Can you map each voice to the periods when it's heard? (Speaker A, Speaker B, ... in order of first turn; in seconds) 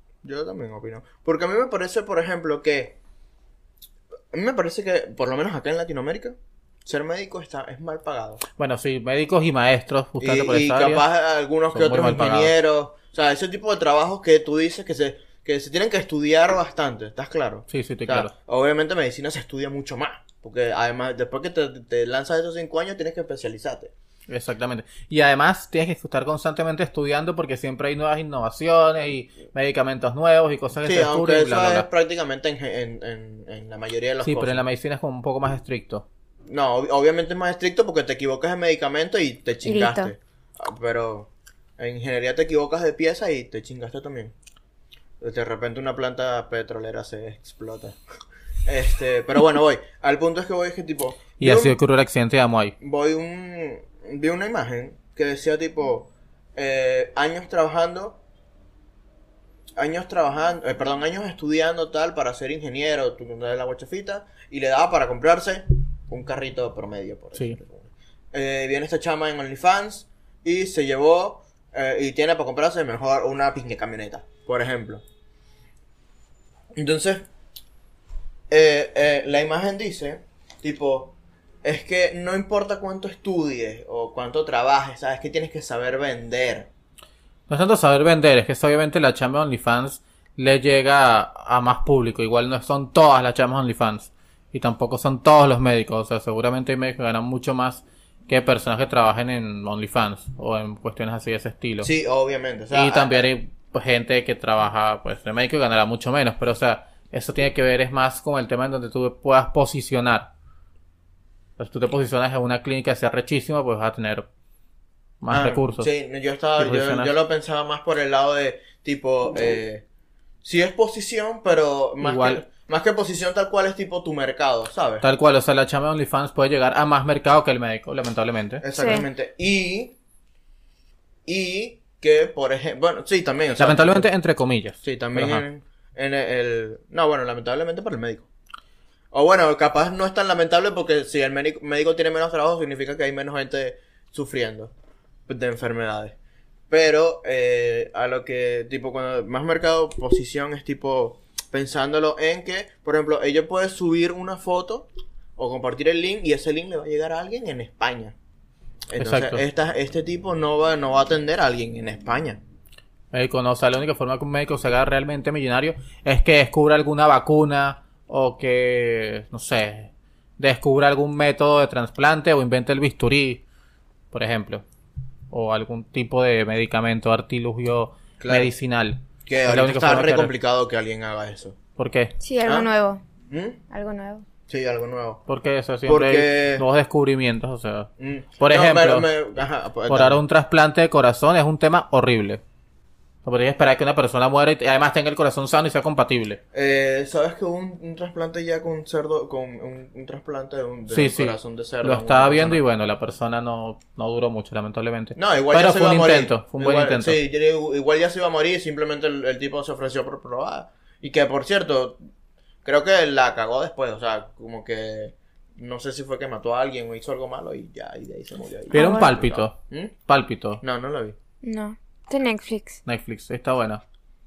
Speaker A: 0.2-3.0, 4.3-8.4, 10.2-23.9, 30.8-34.6, 36.5-44.3, 45.2-48.0, 48.7-51.8, 52.8-58.2, 59.8-75.0, 76.8-77.3, 78.5-86.7, 101.8-103.3, 115.3-119.8, 120.4-125.1, 128.6-129.9, 131.3-134.1, 134.8-138.3, 139.1-144.7, 145.3-146.2, 146.7-158.2, 158.9-162.4, 178.2-178.5, 179.3-181.6, 183.3-183.6, 184.5-185.2, 185.9-186.7, 188.0-190.2, 196.5-202.6, 205.2-212.0, 212.7-219.9, 220.6-221.2
Speaker B: 8.6-11.0, 11.7-12.5, 17.7-18.3, 24.3-31.9, 34.2-36.0, 51.4-52.8, 87.5-101.9, 102.7-110.3, 111.6-114.3, 115.2-115.9, 116.6-117.1, 122.0-122.4, 125.0-128.6, 133.6-135.4, 159.0-159.4, 163.1-173.4, 174.1-174.6, 175.3-180.3, 181.8-182.1, 185.3-189.1, 189.9-192.4, 193.2-196.4, 200.9-207.2, 218.7-220.6, 222.8-223.8
Speaker C: 39.6-40.1, 128.7-129.1, 182.2-183.0, 183.7-184.2, 218.7-219.2, 221.4-222.8